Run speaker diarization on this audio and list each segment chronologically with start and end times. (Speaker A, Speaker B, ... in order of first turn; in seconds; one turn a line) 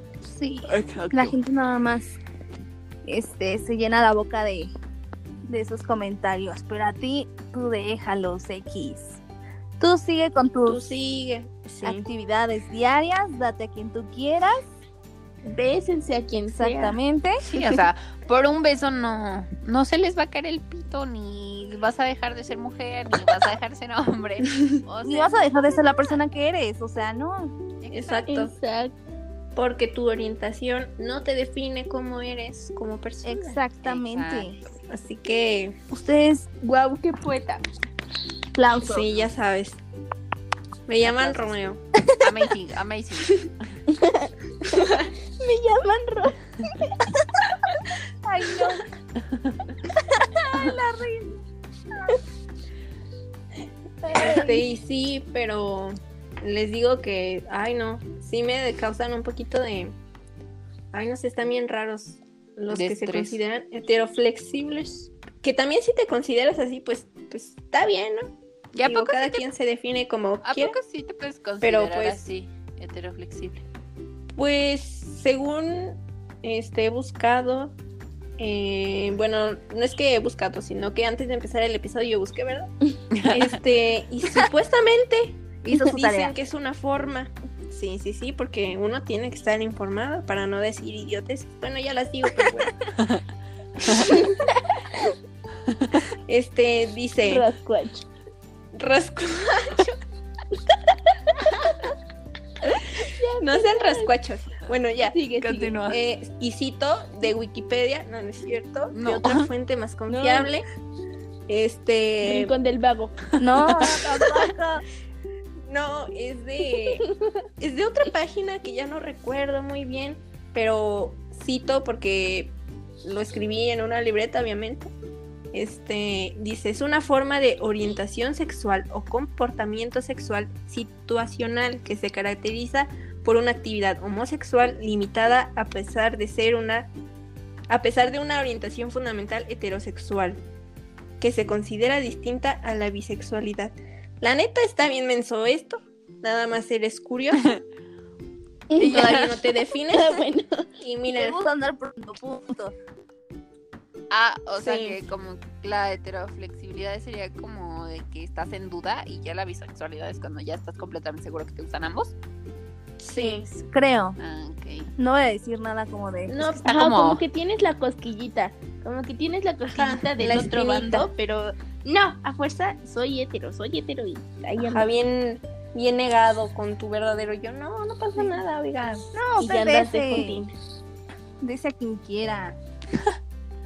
Speaker A: 0.2-2.2
Speaker A: 3.0-4.7
Speaker A: 5.5-9.2
Speaker A: 9.8-10.8
Speaker B: 10.6-12.1
Speaker A: 11.8-14.6
Speaker C: 15.4-17.0
Speaker A: 16.5-17.4
Speaker D: 17.4-26.2
Speaker A: 25.0-27.6
Speaker D: 27.8-28.3
Speaker B: 27.9-28.5
Speaker C: 28.3-28.9
Speaker B: 29.6-33.6
Speaker A: 33.2-34.6
Speaker D: 33.8-34.6
Speaker B: 34.9-35.8
Speaker A: 35.9-36.5
Speaker C: 36.6-37.6
Speaker A: 38.5-39.2
Speaker B: 38.8-39.8
Speaker B: 40.9-41.8
Speaker D: 41.0-41.5
Speaker D: 42.2-43.5
Speaker C: 43.9-46.9
Speaker A: 48.2-48.9
Speaker A: 50.1-51.4
Speaker A: 51.9-52.2
Speaker C: 54.0-54.7
Speaker B: 54.1-60.0
Speaker B: 60.9-68.3
Speaker D: 62.7-63.4
Speaker D: 68.7-69.4
Speaker B: 68.8-70.8
Speaker D: 70.4-73.6
Speaker B: 71.6-72.2
Speaker B: 74.3-77.7
Speaker B: 78.4-82.7
Speaker D: 83.2-83.5
Speaker B: 83.2-92.7
Speaker A: 85.6-86.3
Speaker B: 96.3-97.5
Speaker C: 97.2-98.1
Speaker B: 98.7-100.0
Speaker C: 103.0-104.1
Speaker B: 103.0-105.2
Speaker C: 105.0-105.8
Speaker D: 105.4-106.0
Speaker B: 105.9-110.7
Speaker D: 108.9-109.5
Speaker C: 110.1-110.5
Speaker B: 111.5-112.5
Speaker C: 112.2-113.2
Speaker A: 113.4-114.8
Speaker B: 115.7-124.9
Speaker C: 116.8-117.0
Speaker B: 125.5-136.9
Speaker B: 137.7-140.4
Speaker B: 141.2-147.5
Speaker C: 148.7-149.1
Speaker D: 148.8-149.3
Speaker B: 148.8-150.2
Speaker C: 149.9-150.7
Speaker B: 150.8-151.4
Speaker A: 151.1-152.7
Speaker D: 154.1-162.1
Speaker B: 154.6-155.0
Speaker B: 163.0-163.5
Speaker C: 163.1-163.5
Speaker A: 163.7-164.2
Speaker D: 164.2-164.9
Speaker A: 165.0-166.5
Speaker C: 166.3-174.9
Speaker D: 166.6-167.2
Speaker B: 169.7-171.1
Speaker B: 174.6-179.1
Speaker A: 179.1-180.4
Speaker C: 179.4-180.5
Speaker A: 181.4-182.6